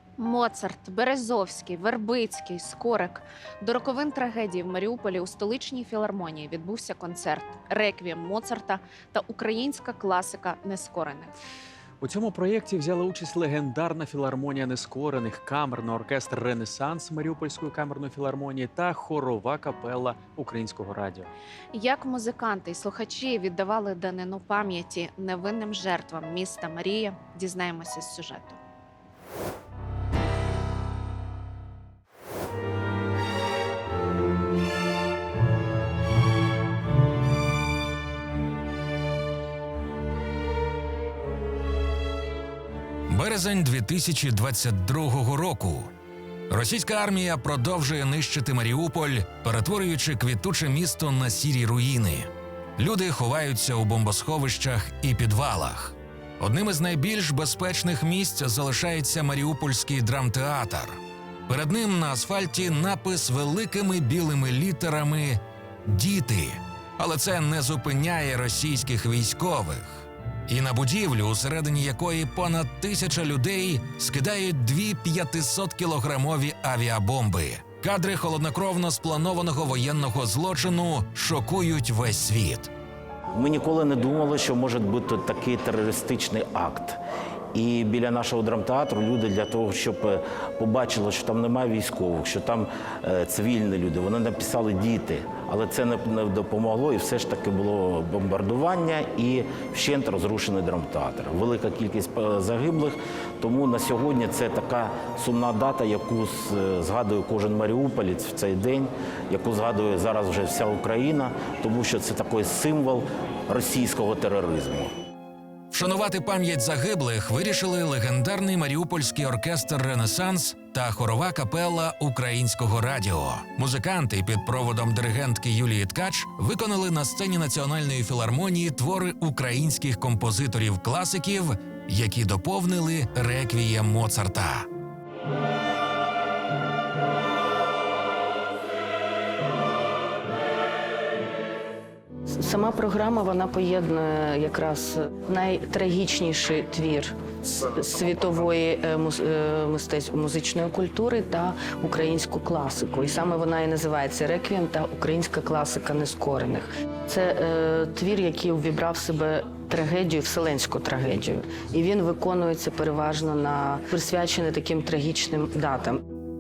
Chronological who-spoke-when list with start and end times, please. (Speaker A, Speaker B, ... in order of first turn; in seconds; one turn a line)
Speaker A: 0.2-11.3
Speaker B: 12.0-21.3
Speaker A: 21.7-28.6
Speaker C: 43.1-45.9
Speaker C: 46.5-82.7
Speaker D: 83.3-87.0
Speaker D: 87.5-114.9
Speaker C: 115.7-134.7
Speaker E: 142.3-166.0